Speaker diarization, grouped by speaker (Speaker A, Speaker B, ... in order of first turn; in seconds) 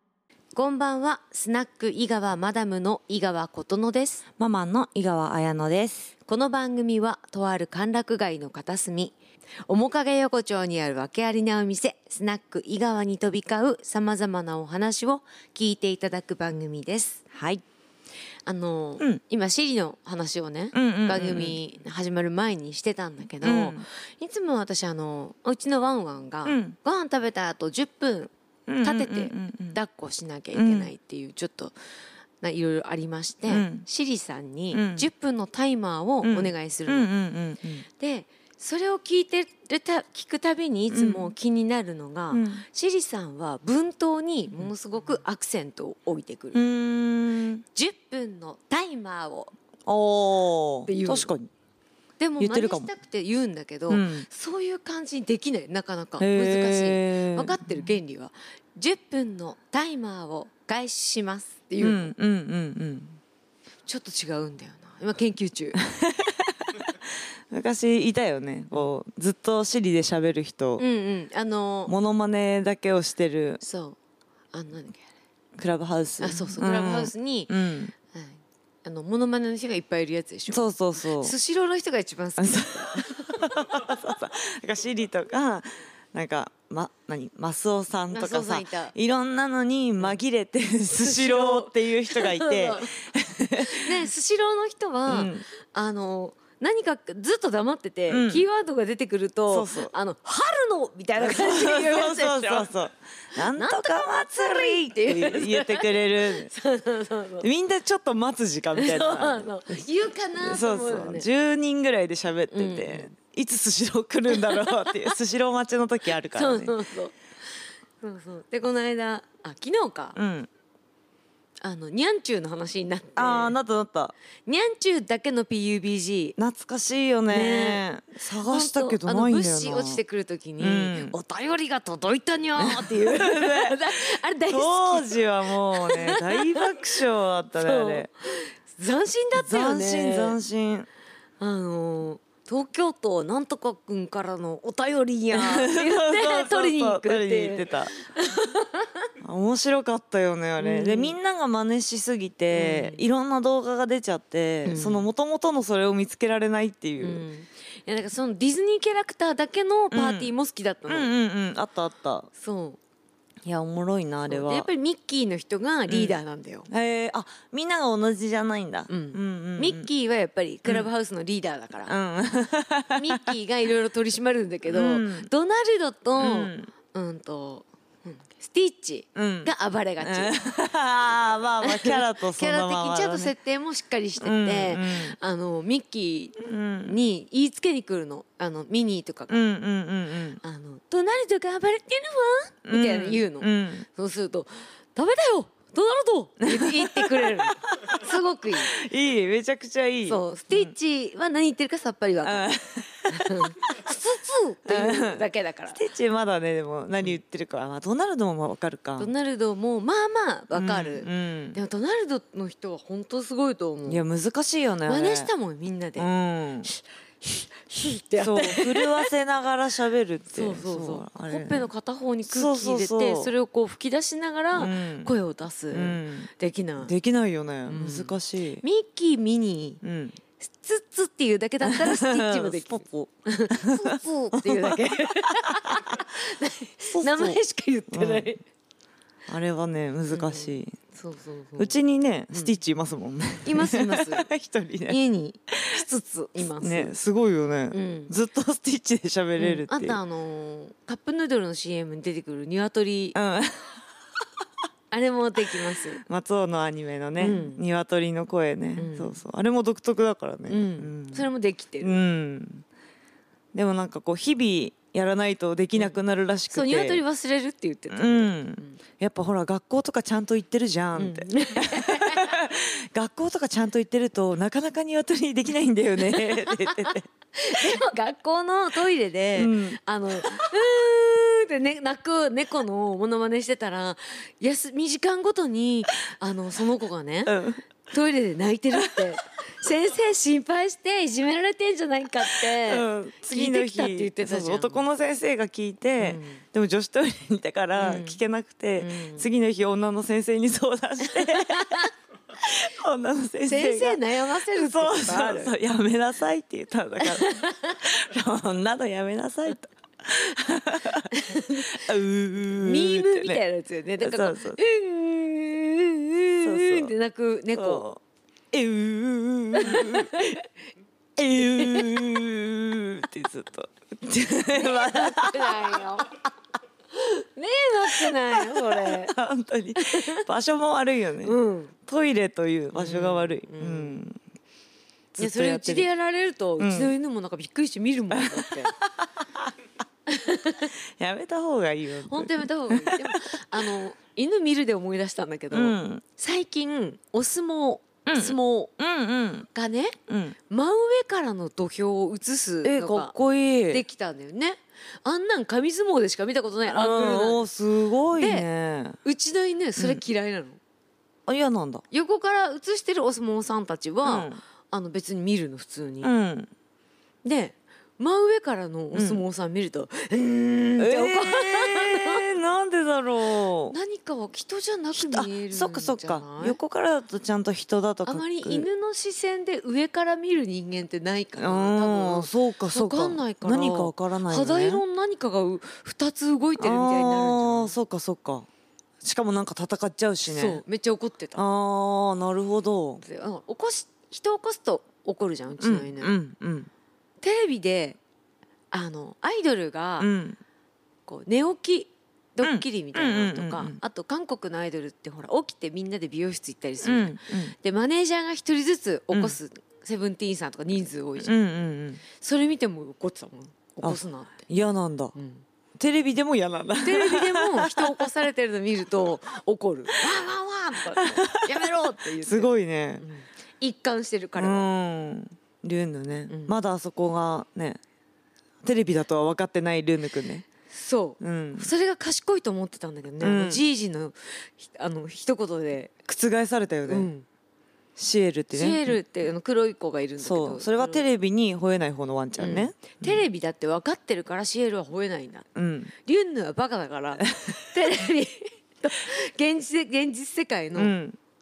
Speaker A: 0.5-4.2, 6.2-9.2, 9.7-17.2, 18.4-28.3, 28.8-31.7, 32.4-37.1, 37.9-46.6, 47.7-49.5, 50.9-51.3, 52.2-62.1, 63.9-65.8, 70.8-71.9, 73.6-74.0, 74.5-75.0, 76.2-77.5, 78.1-83.4, 88.1-88.9, 90.9-102.7, 103.4-107.5, 108.7-111.3, 112.5-113.1, 114.3-115.1, 116.2-117.2, 118.0-120.2, 121.6-123.6, 124.5-126.3, 127.3-127.8, 128.4-135.2, 135.7-136.8, 137.6-140.4, 141.4-149.1, 150.6-151.2, 152.5-153.1, 154.6-155.1, 157.0-161.1, 162.3-162.8, 164.3-166.7, 168.9-172.0, 172.9-180.3, 181.6-189.4, 190.4-198.7, 200.0-205.8, 209.0-214.0, 214.8-216.1, 216.7-219.1, 220.3-226.9, 227.7-229.8, 230.5-238.4, 240.1-241.8, 243.4-244.3, 244.9-246.9, 247.7-248.1, 249.4-253.2, 254.9-256.0, 257.2-257.6, 258.8-259.2, 260.5-261.9, 266.5-268.8, 270.9-272.3, 276.0-287.3, 287.9-294.8, 296.0-296.4, 297.7-298.2, 298.8-299.3, 301.0-301.9, 303.4-305.6, 307.0-308.0, 311.1-311.8, 312.4-317.9, 319.5-320.5, 321.4-322.0, 324.5-326.2, 326.9-329.1, 329.8-330.2, 331.2-331.7, 332.7-334.0, 335.1-338.7, 340.1-340.7, 342.1-348.7, 349.5-350.0, 350.5-353.1, 353.7-357.4, 358.1-358.4, 359.0-360.6, 361.9-366.1, 367.2-372.2, 373.7-376.6, 378.0-387.8, 390.2-391.4, 393.0-396.1, 397.2-398.0, 398.7-400.1, 401.1-411.3, 412.1-414.4, 415.1-415.4, 416.8-424.7, 426.3-426.5, 430.7-436.0, 436.9-437.2, 438.5-441.1, 442.4-445.5, 446.0-450.9
Speaker B: 4.4-6.1, 17.3-17.6, 20.7-21.6, 23.4-23.9, 26.4-26.8, 28.7-29.8, 30.5-30.9, 33.5-33.8, 34.7-35.1, 36.2-37.9, 40.9-41.3, 42.3-42.6, 46.5-47.6, 49.9-51.5, 52.4-52.9, 53.9-54.3, 56.2-57.5, 61.8-63.2, 66.0-66.8, 67.5-70.8, 71.9-73.6, 75.6-77.9, 80.5-81.3, 82.4-93.8, 95.1-95.5, 98.1-98.4, 99.5-99.9, 101.2-106.5, 107.4-109.5, 110.4-116.8, 120.1-120.5, 123.2-124.1, 126.4-130.0, 130.6-131.2, 132.6-133.8, 134.4-138.1, 139.3-140.9, 145.3-147.9, 149.2-157.2, 159.9-160.3, 160.9-162.3, 163.4-164.7, 165.9-169.9, 171.9-173.3, 174.7-175.3, 176.2-176.7, 179.1-183.3, 184.2-185.2, 186.4-186.9, 189.3-190.4, 192.7-193.8, 196.5-198.0, 198.5-200.7, 202.2-203.5, 204.7-209.1, 210.5-211.6, 213.9-215.3, 216.0-216.7, 218.2-221.7, 222.3-223.3, 224.5-225.1, 225.7-228.6, 229.8-230.2, 231.6-234.8, 236.9-237.4, 237.9-238.3, 239.3-240.8, 241.6-245.0, 245.5-245.8, 246.6-250.0, 253.1-253.8, 256.0-261.3, 261.8-262.6, 263.5-267.0, 267.9-277.8, 279.4-279.8, 287.2-287.6, 288.7-289.1, 292.2-304.0, 304.5-313.4, 314.0-314.6, 316.4-316.9, 317.5-318.0, 318.5-320.2, 321.2-325.8, 327.9-331.3, 331.9-334.2, 335.2-335.9, 336.6-336.9, 338.1-338.8, 341.0-343.8, 345.5-346.0, 348.1-349.5, 350.1-350.4, 352.6-353.8, 356.6-359.0, 359.8-360.0, 361.3-361.8, 364.0-364.4, 366.0-366.5, 368.9-369.2, 370.8-373.8, 374.9-378.7, 381.4-384.8, 386.6-388.5, 389.0-390.6, 391.3-393.0, 395.6-396.7, 400.0-400.4, 402.4-403.8, 406.8-407.6, 411.2-412.0, 413.8-415.1, 415.8-418.1, 420.9-423.1, 424.4-427.8, 428.6-430.4, 431.2-431.7, 433.2-433.6, 436.1-437.1, 438.0-439.0, 440.2-443.2, 445.5-445.9, 450.7-451.2